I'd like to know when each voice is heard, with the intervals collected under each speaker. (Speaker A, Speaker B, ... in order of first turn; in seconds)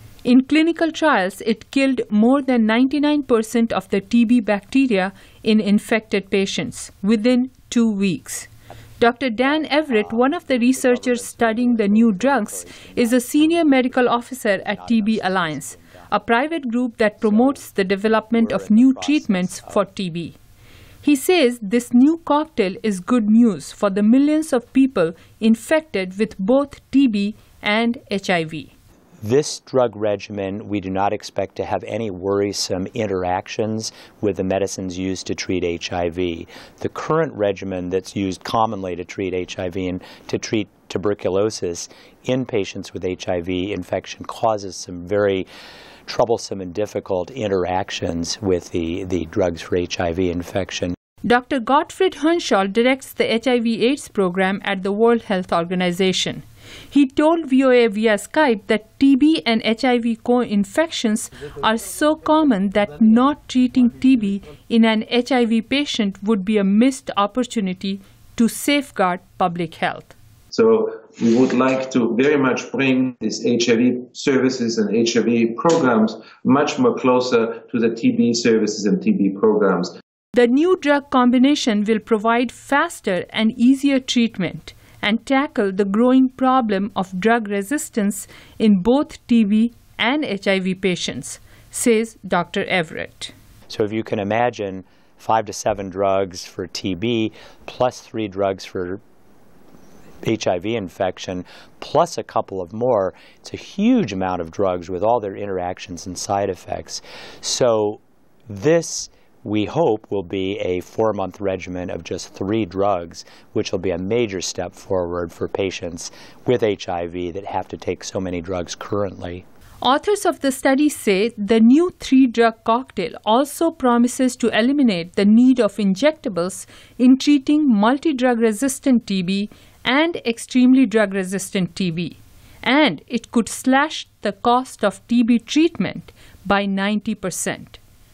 Speaker A: 0.2-20.4, 21.0-28.7, 51.2-70.1, 80.3-93.3, 119.8-137.8
Speaker B: 9.7-16.1, 17.2-17.6, 18.3-19.8, 29.2-45.5, 46.1-50.9, 93.7-99.0, 100.2-119.4
Speaker C: 70.5-79.9